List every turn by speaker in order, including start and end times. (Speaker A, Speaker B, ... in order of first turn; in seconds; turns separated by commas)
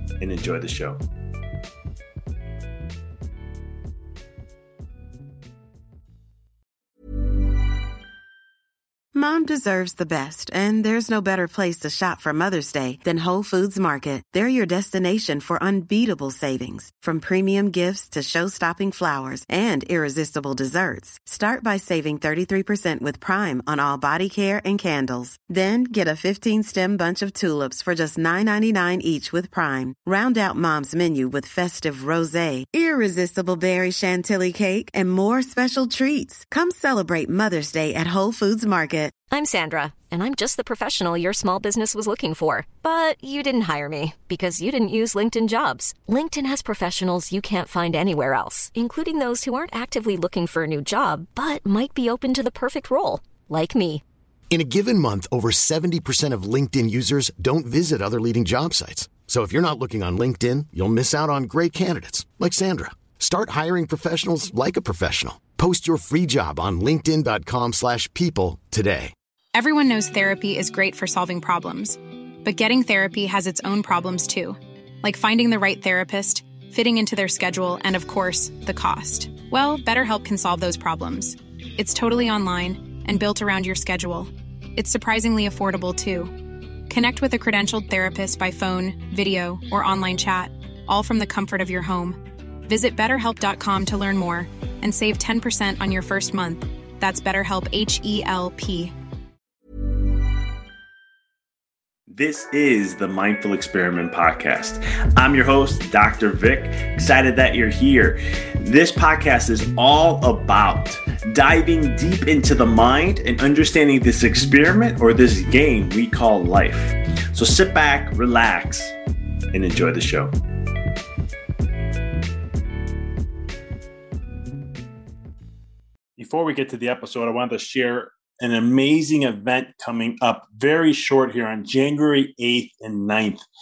Speaker A: 0.2-1.0, Speaker B: 9.2-39.1, Speaker C: 39.3-54.0, Speaker D: 54.5-69.1, Speaker E: 69.5-86.4, Speaker E: 86.9-98.9, Speaker A: 102.1-119.0, Speaker A: 119.5-120.3, Speaker A: 126.2-133.4